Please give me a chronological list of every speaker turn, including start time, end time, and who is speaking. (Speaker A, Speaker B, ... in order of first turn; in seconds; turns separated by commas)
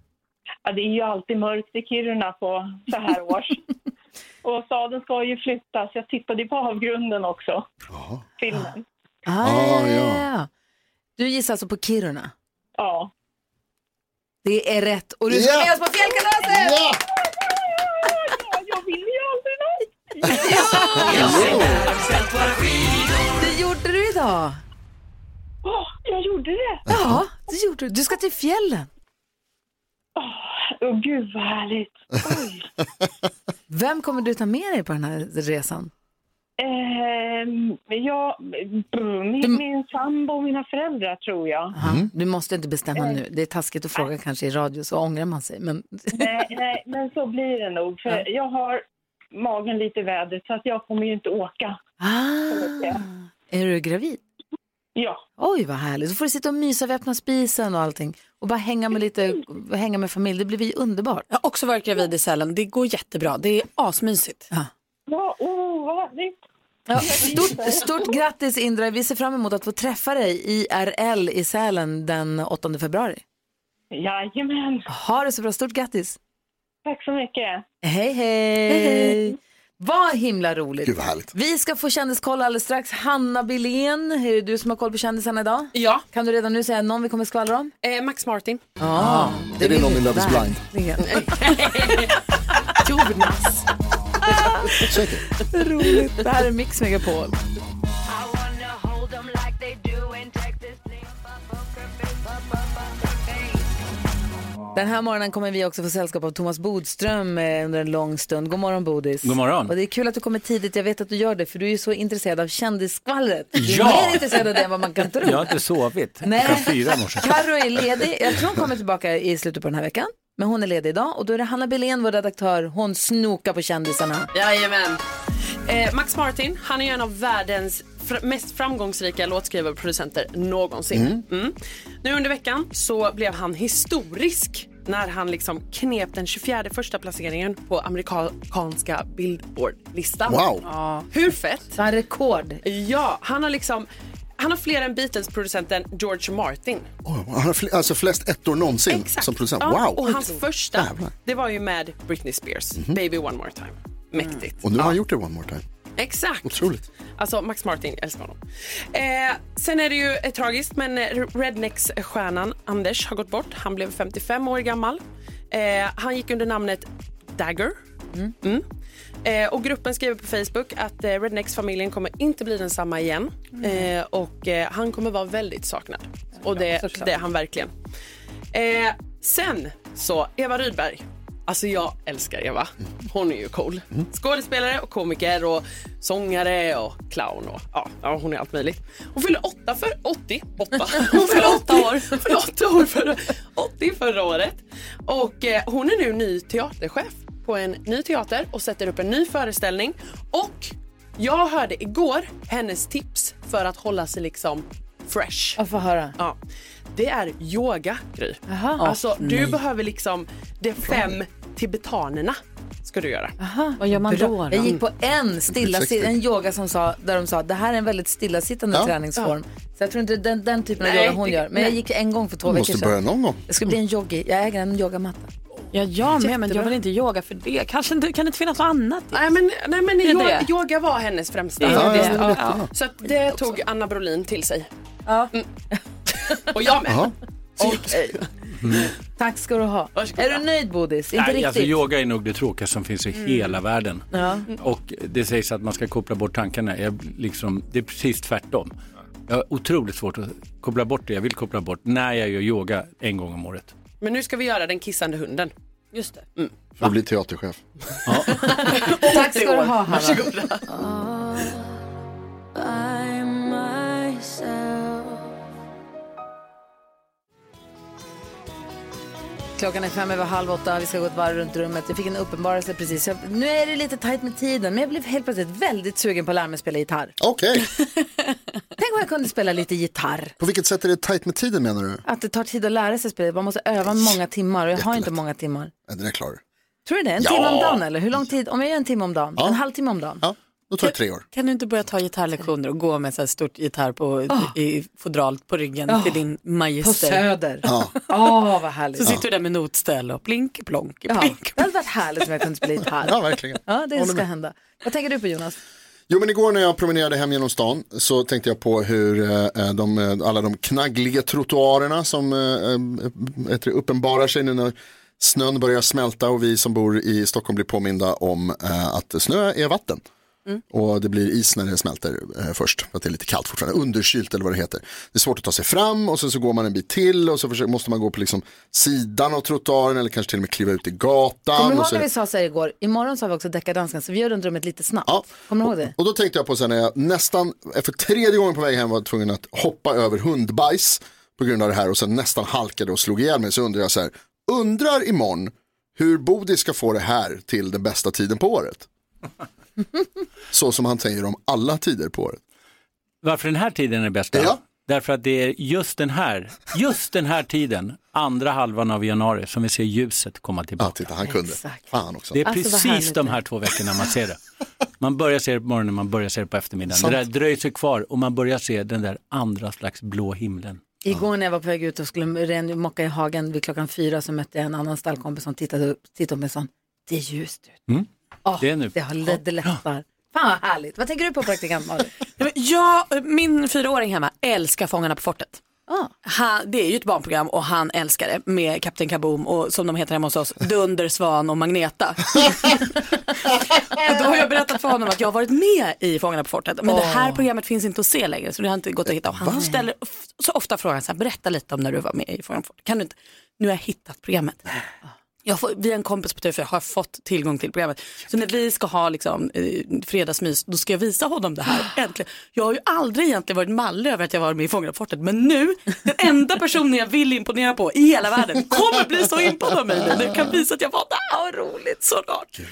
Speaker A: 0.7-3.6, Speaker A: 4.5-7.7, Speaker B: 7.9-8.2, Speaker A: 8.4-8.8, Speaker C: 9.3-10.5, Speaker B: 9.4-10.2, Speaker C: 11.2-12.3, Speaker A: 12.8-13.1, Speaker C: 14.4-16.8, Speaker B: 15.3-15.8, Speaker B: 16.4-17.0, Speaker A: 17.1-21.6, Speaker C: 20.3-21.6, Speaker B: 21.0-21.9, Speaker C: 23.4-24.6, Speaker A: 25.6-26.9, Speaker B: 26.9-27.2, Speaker C: 26.9-28.9, Speaker A: 30.2-32.7, Speaker C: 33.7-35.9, Speaker A: 36.6-41.8, Speaker C: 41.8-46.5, Speaker B: 41.8-42.1, Speaker A: 46.1-48.8, Speaker A: 49.4-51.8, Speaker C: 52.0-54.2, Speaker A: 52.5-53.1, Speaker A: 55.0-55.2, Speaker C: 55.4-61.3, Speaker D: 61.3-64.5, Speaker A: 65.1-66.4, Speaker C: 66.9-73.2, Speaker A: 66.9-68.1, Speaker A: 73.9-74.9, Speaker C: 74.9-76.2, Speaker A: 76.9-77.6, Speaker C: 77.8-87.7, Speaker D: 78.8-79.2, Speaker B: 80.8-81.3, Speaker E: 85.7-86.0, Speaker E: 87.8-88.6, Speaker C: 88.8-91.3, Speaker D: 89.0-89.5, Speaker B: 89.5-90.6, Speaker E: 91.0-92.2, Speaker E: 92.7-93.7, Speaker C: 94.4-94.8, Speaker B: 94.9-95.3, Speaker C: 95.5-97.4, Speaker C: 104.7-115.6, Speaker F: 109.2-109.7, Speaker F: 113.6-114.2, Speaker F: 115.2-117.4, Speaker C: 116.2-124.3, Speaker E: 124.3-125.0, Speaker E: 125.7-140.6, Speaker B: 130.9-131.2, Speaker B: 140.3-140.7, Speaker D: 140.7-141.1, Speaker E: 141.1-141.8, Speaker C: 141.8-142.6, Speaker E: 142.6-146.9, Speaker B: 147.1-151.1, Speaker E: 148.9-154.9, Speaker B: 154.6-155.6, Speaker E: 156.0-156.6, Speaker B: 156.4-156.8, Speaker E: 157.2-158.4, Speaker E: 158.9-167.8, Speaker E: 169.2-177.7, Speaker C: 176.7-177.1, Speaker E: 178.5-205.6, Speaker D: 190.9-192.2, Speaker C: 205.6-206.2, Speaker E: 206.9-213.3, Speaker C: 208.5-208.8, Speaker D: 208.8-209.6, Speaker B: 210.9-211.1, Speaker C: 213.4-225.3, Speaker D: 213.8-214.7, Speaker B: 215.5-216.2, Speaker E: 220.8-221.6, Speaker B: 222.5-223.4, Speaker D: 225.7-229.3, Speaker C: 226.2-226.7, Speaker E: 229.1-234.7, Speaker D: 230.0-230.5, Speaker D: 231.6-232.7, Speaker B: 231.7-232.7, Speaker E: 236.4-237.1, Speaker B: 236.9-237.1, Speaker C: 237.6-238.2, Speaker E: 237.6-237.9, Speaker F: 238.6-238.9, Speaker C: 239.2-241.8, Speaker E: 240.0-240.4, Speaker F: 241.2-244.1, Speaker D: 243.2-243.5, Speaker C: 244.1-244.5, Speaker F: 244.6-248.7, Speaker F: 249.3-253.7, Speaker E: 254.0-255.5, Speaker D: 255.9-256.2, Speaker B: 256.8-257.6, Speaker F: 258.1-258.7, Speaker D: 258.3-261.4, Speaker C: 258.4-260.3, Speaker D: 262.7-264.8, Speaker C: 269.6-277.2, Speaker B: 277.2-277.7, Speaker C: 278.8-280.4, Speaker B: 280.4-282.0, Speaker C: 282.1-285.7, Speaker B: 284.8-285.2, Speaker B: 285.9-286.4, Speaker C: 286.9-290.2, Speaker B: 287.2-287.8, Speaker B: 290.2-291.2, Speaker D: 290.8-297.3, Speaker C: 294.3-294.5, Speaker C: 295.9-296.2, Speaker C: 296.8-299.1, Speaker B: 297.6-297.9, Speaker D: 299.0-301.6, Speaker C: 301.1-305.6, Speaker B: 303.0-304.2, Speaker B: 306.1-320.0, Speaker B: 320.7-332.1, Speaker C: 331.5-335.9, Speaker B: 335.1-348.9, Speaker B: 350.5-352.4, Speaker F: 353.2-361.0, Speaker B: 354.3-354.6, Speaker B: 360.8-362.4, Speaker C: 361.2-361.9, Speaker F: 362.3-364.4, Speaker C: 362.4-363.4, Speaker F: 365.0-370.8, Speaker B: 366.9-367.2, Speaker C: 371.0-377.8, Speaker C: 378.4-382.1, Speaker F: 378.6-379.0, Speaker D: 382.4-385.6, Speaker C: 385.9-386.1, Speaker D: 386.2-404.6, Speaker C: 396.9-397.4, Speaker D: 405.4-422.5, Speaker C: 421.3-422.0